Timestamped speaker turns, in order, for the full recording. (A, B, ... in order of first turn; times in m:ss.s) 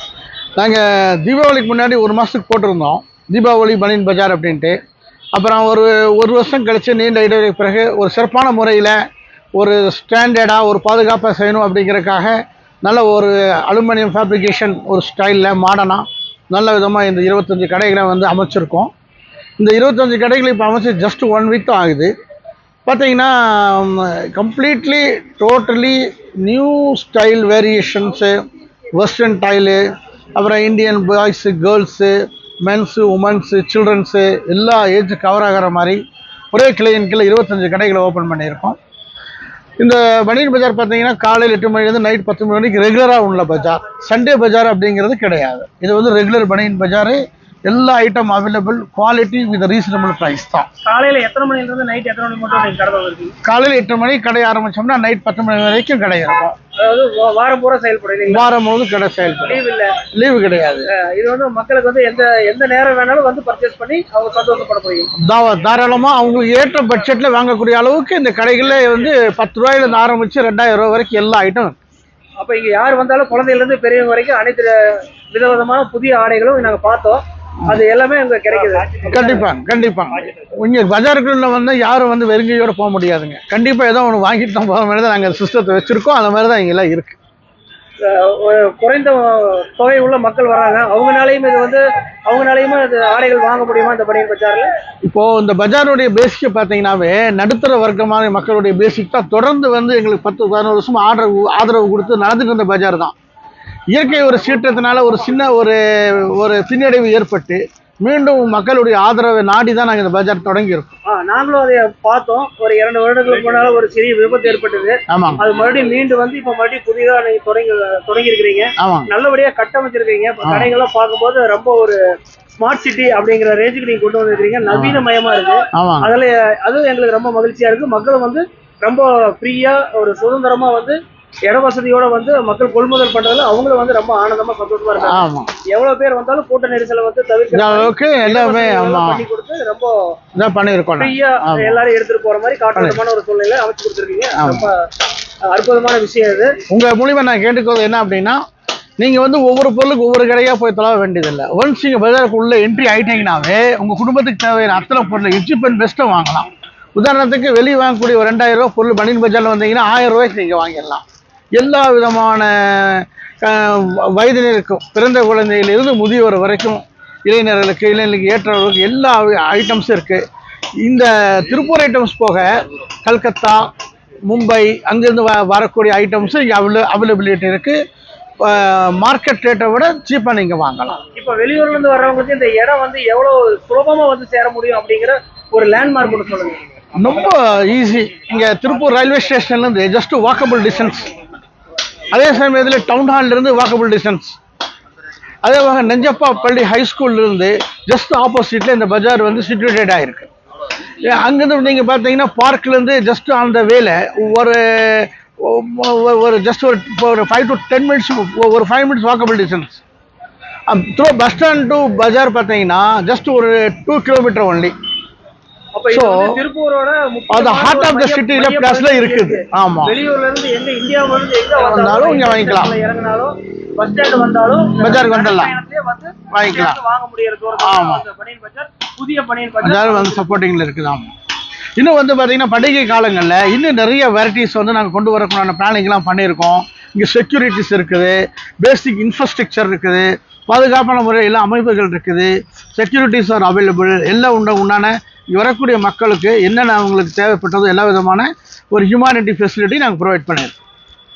0:00.6-0:04.8 A
0:05.3-0:09.0 A
0:09.6-0:18.9 A
0:19.6-0:22.1 A
0:22.8-0:28.4 A
0:28.9-0:36.0 A
0:36.5-0:38.8 A
0:39.8-0:50.7 A
0:50.8-0:53.3 B
0:53.4-0:56.6 A
0:56.8-0:58.5 B
0:58.2-0:59.6 A
0:59.4-1:00.0 B
1:00.1-1:00.9 A
1:00.9-1:05.1 B
1:05.2-1:11.8 A
1:12.4-1:14.7 B
1:15.3-1:19.4 B
1:19.1-1:27.2 A
1:28.0-1:34.7 B
1:35.0-1:43.1 A
1:43.9-1:51.0 A
1:51.1-2:02.0 B
1:55.1-1:55.4 A
1:58.8-1:59.1 A
2:00.4-2:00.7 A
2:02.6-2:19.9 B
2:04.7-2:05.0 A
2:05.7-2:06.1 A
2:15.0-2:15.5 A
2:17.5-2:19.2 A
2:20.4-2:21.8 A
2:21.0-2:24.8 B
2:22.7-2:23.0 A
2:24.4-2:24.7 A
2:25.4-2:26.6 B
2:26.7-2:28.4 A
2:29.0-2:41.0 A
2:41.6-2:50.2 A
2:50.8-2:52.5 A
2:53.0-2:53.6 A
2:54.3-2:57.8 A
2:58.4-3:01.0 A
3:01.2-3:06.6 B
3:06.9-3:11.1 A
3:12.1-3:14.4 A
3:15.4-3:20.3 A
3:21.0-3:29.8 A
3:30.7-3:34.7 A
3:35.7-3:50.4 B
3:35.9-3:36.4 A
3:37.3-3:40.0 A
3:41.6-3:42.7 A
3:44.8-3:45.5 A
3:46.3-3:46.8 A
3:47.6-3:48.0 A
3:49.6-3:51.1 A
3:51.8-4:10.6 A